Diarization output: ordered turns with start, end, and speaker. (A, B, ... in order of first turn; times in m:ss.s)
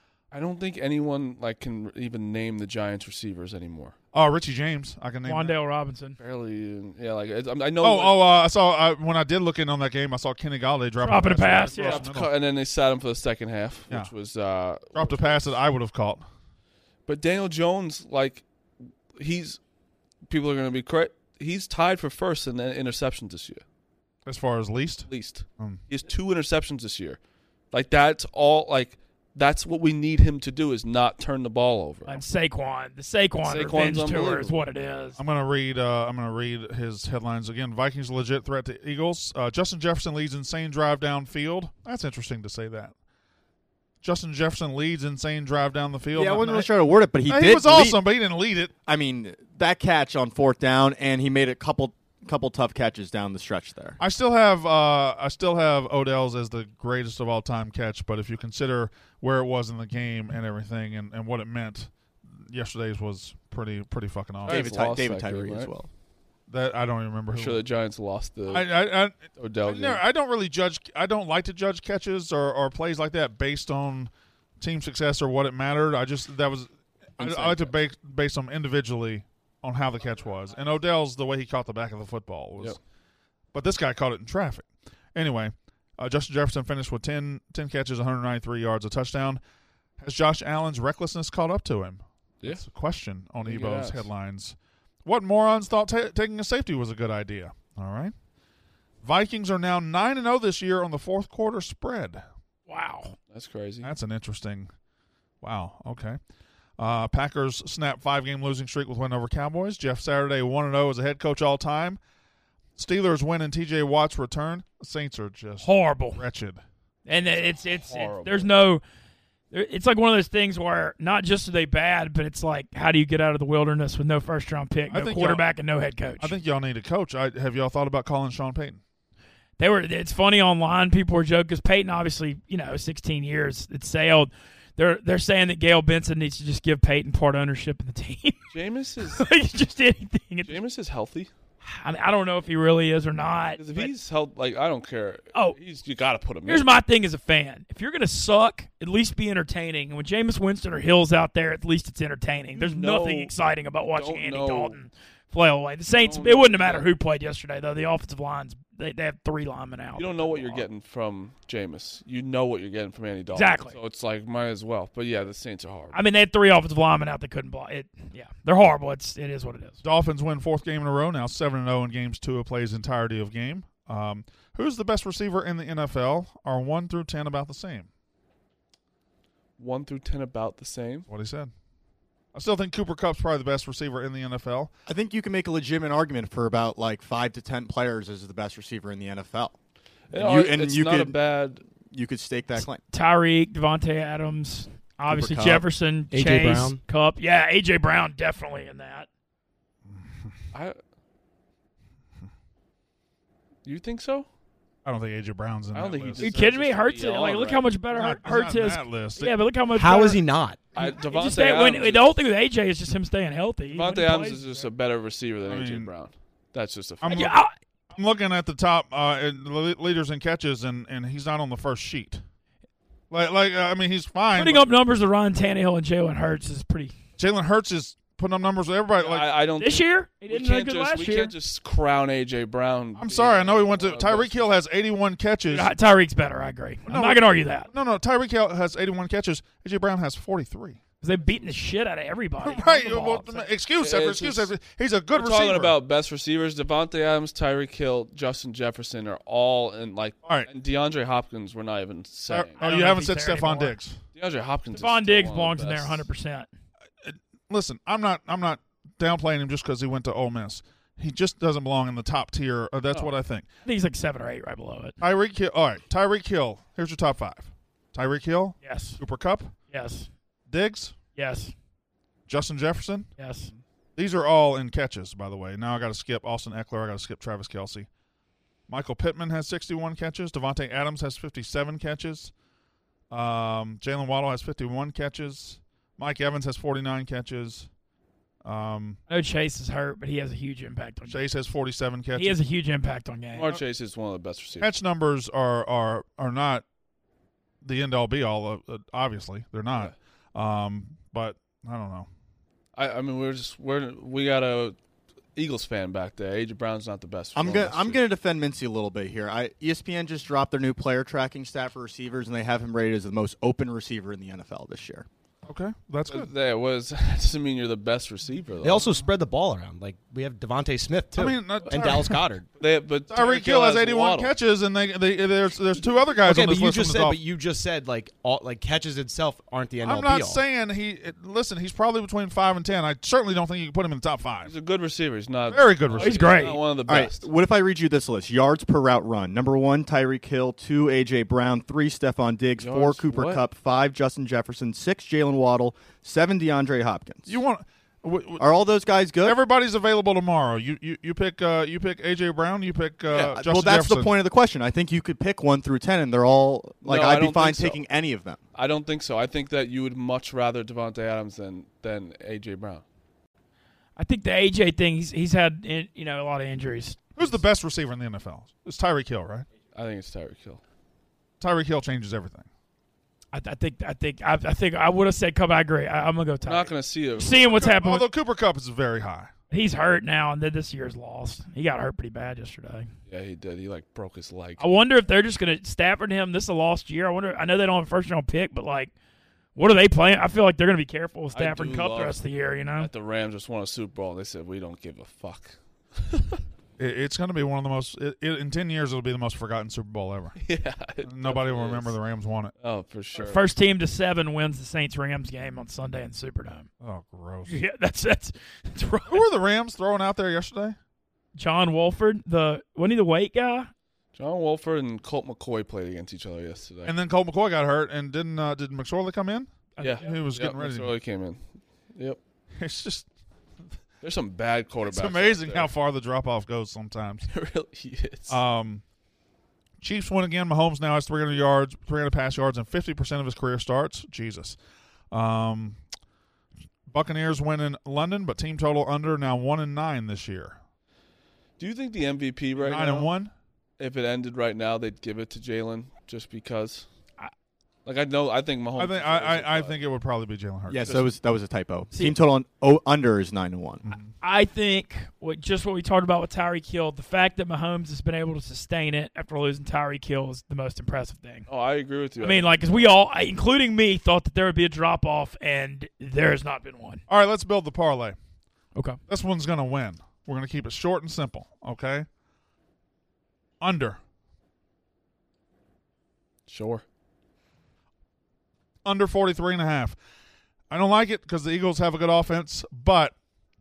0:00.3-0:04.0 A
0:04.1-0:05.6 B
0:05.2-0:06.2 C
0:06.2-0:08.2 A
0:07.8-0:12.3 B
0:11.0-0:12.1 C
0:11.7-0:15.6 A
0:14.9-0:16.2 B
0:17.1-0:18.4 A
0:19.2-0:19.6 A
0:20.3-0:23.6 A
0:24.3-0:25.8 B
0:25.1-0:27.2 A
0:27.7-0:32.2 A
0:32.1-0:35.2 C
0:33.4-0:34.6 A
0:35.2-0:43.0 B
0:44.0-0:46.7 B
0:46.2-0:48.0 D
0:47.2-0:48.7 B
0:48.9-0:54.0 D
0:54.0-1:04.7 B
1:04.4-1:05.7 A
1:04.5-1:05.9 D
1:06.5-1:07.6 B
1:07.3-1:08.8 A
1:08.5-1:22.8 B
1:09.3-1:10.0 A
1:17.2-1:17.8 A
1:23.5-1:29.4 B
1:30.0-1:38.2 B
1:33.4-1:34.1 A
1:39.0-1:42.2 B
1:42.7-1:43.2 C
1:43.3-1:43.9 A
1:43.8-1:44.7 B
1:45.4-1:46.2 B
1:46.8-1:52.0 B
1:52.8-1:56.6 B
1:55.6-1:56.2 C
1:57.1-1:58.8 C
1:57.3-1:58.5 A
1:59.5-2:06.4 C
2:04.9-2:05.4 B
2:06.2-2:08.8 B
2:09.6-2:18.4 C
2:18.5-2:19.2 A
2:19.1-2:20.6 C
2:20.4-2:21.3 A
2:21.6-2:23.9 C
2:23.6-2:26.7 A
2:26.5-2:40.7 C
2:32.6-2:33.4 A
2:33.9-2:34.8 A
2:35.9-2:36.9 A
2:40.0-2:46.0 A
2:43.3-2:43.8 C
2:45.9-2:49.8 C
2:49.8-2:57.9 B
2:59.6-3:01.1 A
3:01.1-3:01.5 B
3:02.3-3:04.7 B
3:04.9-3:09.6 D
3:10.1-3:11.6 A
3:10.1-3:11.2 D
3:11.8-3:12.8 D
3:12.9-3:19.1 C
3:15.1-3:15.7 D
3:16.1-3:16.8 E
3:19.9-3:20.3 B
3:20.5-3:20.8 A
3:23.6-3:24.3 A
3:24.8-3:26.2 B
3:25.7-3:27.7 A
3:26.2-3:34.7 C
3:27.9-3:29.4 B
3:29.7-3:30.7 E
3:30.8-3:32.1 A
3:33.7-3:37.4 A
3:35.5-3:35.9 B
3:37.0-3:37.4 B
3:37.1-3:37.5 C
3:37.9-3:42.2 B
3:43.1-3:44.7 B
3:44.3-3:47.0 C
3:47.2-3:49.3 B
3:49.0-3:54.5 A
3:49.6-3:51.3 C
3:53.0-3:55.7 B
3:55.5-3:57.7 C
3:56.9-4:00.8 B
4:01.0-4:03.5 C
4:02.4-4:05.8 B
4:03.8-4:04.5 A
4:05.1-4:12.6 A
4:12.3-4:14.0 B
4:12.6-4:13.8 C
4:14.2-4:16.1 A
4:14.7-4:16.5 C
4:17.0-4:23.5 B
4:23.6-4:25.0 C
4:25.0-4:29.6 B
4:28.6-4:29.0 C
4:29.7-4:30.1 C
4:30.5-4:31.0 B
4:31.2-4:31.5 C
4:32.3-4:33.1 B
4:33.2-4:33.5 C
4:34.0-4:37.9 B
4:38.7-4:42.3 B
4:43.1-4:47.7 B
4:48.4-4:49.0 B
4:49.1-4:51.2 C
4:51.1-4:52.4 B
4:52.2-4:53.6 C
4:53.3-4:54.7 A
4:54.6-4:56.6 B
4:57.6-5:02.1 B
5:02.8-5:04.8 A
5:05.4-5:08.0 A
5:07.4-5:15.1 D
5:15.5-5:16.3 B
5:16.1-5:18.8 A
5:18.6-5:22.5 E
5:21.2-5:22.2 B
5:22.6-5:24.3 A
5:23.1-5:27.2 B
5:26.2-5:30.4 E
5:29.8-5:34.5 B
5:34.4-5:37.3 A
5:35.5-5:36.3 B
5:36.0-5:36.6 C
5:36.9-5:47.4 D
5:42.6-5:43.4 A
5:47.3-5:48.5 B
5:48.4-5:49.4 D
5:49.2-5:54.1 B
5:53.1-5:53.4 A
5:53.3-5:58.4 D
5:56.8-5:57.8 A
5:58.5-6:02.8 A
6:04.0-6:07.3 C
6:07.2-6:09.5 B
6:09.7-6:10.6 A
6:11.4-6:12.5 B
6:13.3-6:18.1 C
6:16.4-6:17.6 A
6:17.4-6:19.3 B
6:19.5-6:22.9 C
6:23.1-6:24.7 A
6:24.6-6:28.9 C
6:29.6-6:32.9 C
6:31.3-6:32.2 A
6:32.8-6:36.4 A
6:36.8-6:40.4 B
6:40.4-6:42.0 A
6:41.0-6:42.5 B
6:42.6-6:43.4 A
6:43.2-6:46.7 C
6:46.8-6:47.6 B
6:47.5-6:49.2 C
6:49.1-6:50.8 B
6:51.4-6:53.7 C
6:54.2-6:56.9 A
6:56.8-7:00.9 B
6:59.8-7:00.1 C
6:59.8-7:02.2 A
7:02.6-7:03.1 B
7:04.0-7:05.7 A
7:04.8-7:07.3 B
7:07.3-7:08.4 A
7:08.3-7:08.8 B
7:09.8-7:14.6 B
7:15.1-7:15.8 B
7:16.9-7:20.6 B
7:21.6-7:23.1 A
7:22.6-7:23.3 B
7:23.8-7:26.9 A
7:27.8-7:29.8 A
7:28.8-7:31.0 B
7:30.7-7:33.8 D
7:33.8-7:34.1 B
7:34.2-7:41.5 C
7:41.5-7:42.9 A
7:42.2-7:47.0 C
7:47.1-7:48.2 B
7:49.1-7:52.1 B
7:53.6-7:54.0 B
7:56.5-7:56.8 A
7:58.8-8:00.0 B
8:00.7-8:03.1 B